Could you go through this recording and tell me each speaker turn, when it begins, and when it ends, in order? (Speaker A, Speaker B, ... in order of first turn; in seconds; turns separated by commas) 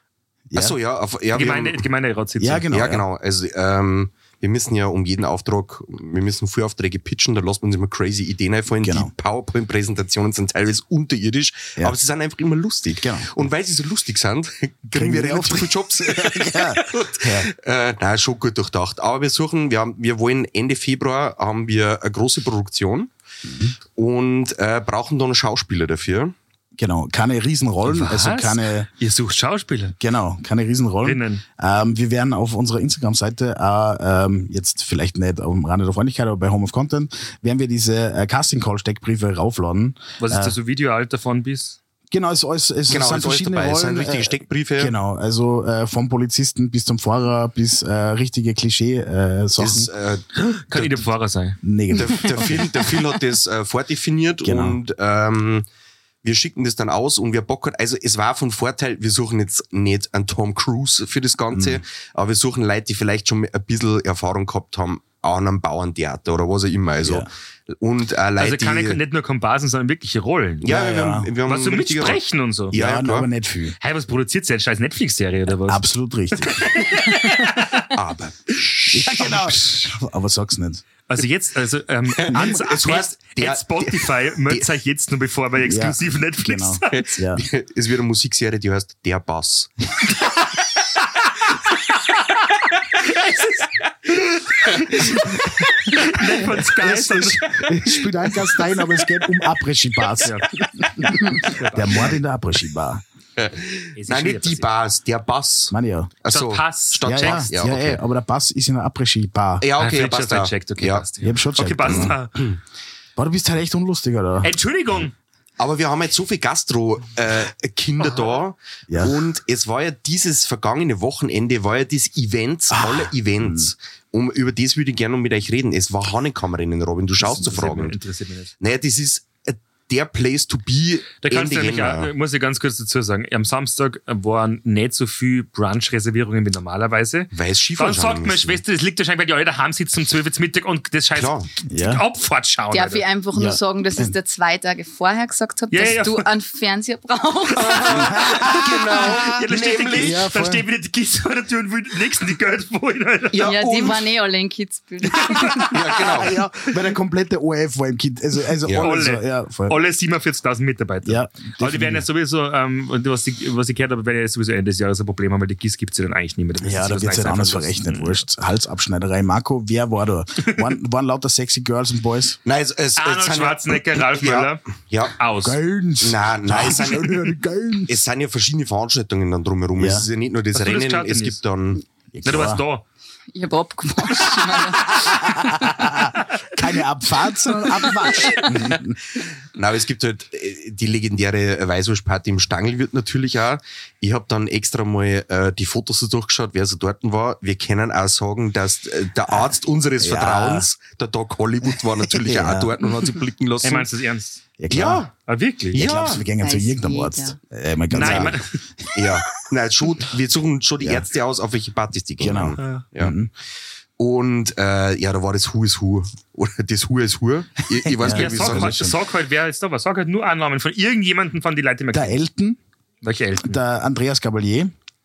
Speaker A: 0.5-0.8, Speaker B: 0.5-1.9, Speaker C: 1.3-2.6, Speaker A: 2.4-3.0, Speaker B: 2.7-23.1, Speaker A: 8.7-9.1, Speaker A: 12.9-13.3, Speaker A: 14.9-17.5, Speaker A: 23.4-23.7, Speaker B: 23.9-26.3, Speaker A: 26.8-28.9, Speaker C: 27.8-29.9, Speaker A: 30.0-40.5, Speaker C: 31.0-31.4, Speaker C: 40.2-41.8, Speaker A: 42.1-49.9, Speaker B: 42.9-44.9, Speaker B: 49.6-51.1, Speaker C: 50.7-51.6, Speaker A: 51.6-52.7, Speaker B: 52.0-55.7, Speaker A: 54.4-54.8, Speaker B: 56.2-69.0, Speaker A: 61.5-61.8, Speaker A: 67.0-67.3, Speaker C: 68.4-70.7, Speaker B: 70.6-72.2, Speaker A: 70.6-71.3, Speaker C: 71.4-72.7, Speaker B: 72.7-73.3, Speaker A: 72.7-73.8, Speaker C: 73.8-75.8, Speaker A: 75.6-76.7, Speaker C: 76.4-77.8, Speaker B: 77.9-79.6, Speaker A: 78.9-80.8, Speaker C: 81.1-87.2, Speaker B: 82.2-84.7, Speaker A: 82.3-82.6, Speaker A: 85.6-87.4, Speaker B: 86.9-89.7, Speaker C: 93.0-97.7, Speaker A: 96.2-103.0, Speaker C: 100.2-102.2, Speaker B: 103.4-108.0, Speaker C: 104.0-104.7, Speaker A: 105.7-106.1, Speaker C: 106.3-107.5, Speaker A: 107.0-109.7, Speaker B: 109.6-111.0, Speaker C: 109.8-112.4, Speaker A: 111.2-112.2, Speaker B: 111.8-112.6, Speaker A: 113.2-114.5, Speaker C: 114.4-115.1, Speaker B: 115.6-128.0, Speaker A: 118.9-119.3, Speaker A: 122.7-123.7, Speaker C: 127.2-128.5, Speaker B: 128.6-132.1, Speaker C: 131.2-143.1, Speaker B: 137.3-138.6, Speaker B: 141.1-141.5, Speaker A: 141.7-142.0, Speaker D: 142.7-148.2, Speaker A: 143.3-144.1, Speaker C: 145.7-146.3, Speaker C: 147.6-153.6, Speaker B: 147.6-150.2, Speaker A: 148.0-148.6, Speaker A: 149.9-150.7, Speaker B: 153.3-154.1, Speaker D: 153.4-155.7, Speaker B: 155.7-156.4, Speaker A: 155.9-159.8, Speaker B: 158.6-158.9, Speaker C: 158.8-168.2, Speaker A: 161.1-162.1, Speaker A: 166.6-172.4, Speaker B: 172.4-175.2, Speaker C: 173.0-174.6, Speaker C: 175.2-175.6, Speaker A: 175.4-178.0, Speaker B: 176.0-177.3, Speaker B: 177.9-181.8, Speaker A: 179.8-180.1, Speaker C: 180.5-181.4, Speaker A: 182.1-182.6, Speaker C: 182.2-182.8, Speaker D: 183.3-185.2, Speaker A: 184.9-189.0, Speaker B: 189.5-203.9, Speaker A: 199.3-200.7, Speaker A: 202.1-202.7, Speaker C: 203.6-204.4, Speaker A: 204.6-205.1, Speaker B: 204.7-205.1, Speaker C: 205.2-205.8, Speaker B: 205.7-206.3, Speaker A: 205.7-208.4, Speaker D: 206.3-207.4, Speaker C: 207.9-208.6, Speaker B: 207.9-208.4, Speaker B: 208.9-213.2, Speaker A: 210.8-211.1, Speaker A: 212.2-213.3, Speaker C: 212.6-212.8, Speaker B: 214.0-218.9, Speaker A: 217.8-219.0, Speaker C: 218.1-222.2, Speaker A: 221.9-222.6, Speaker C: 223.0-223.6, Speaker A: 223.4-224.7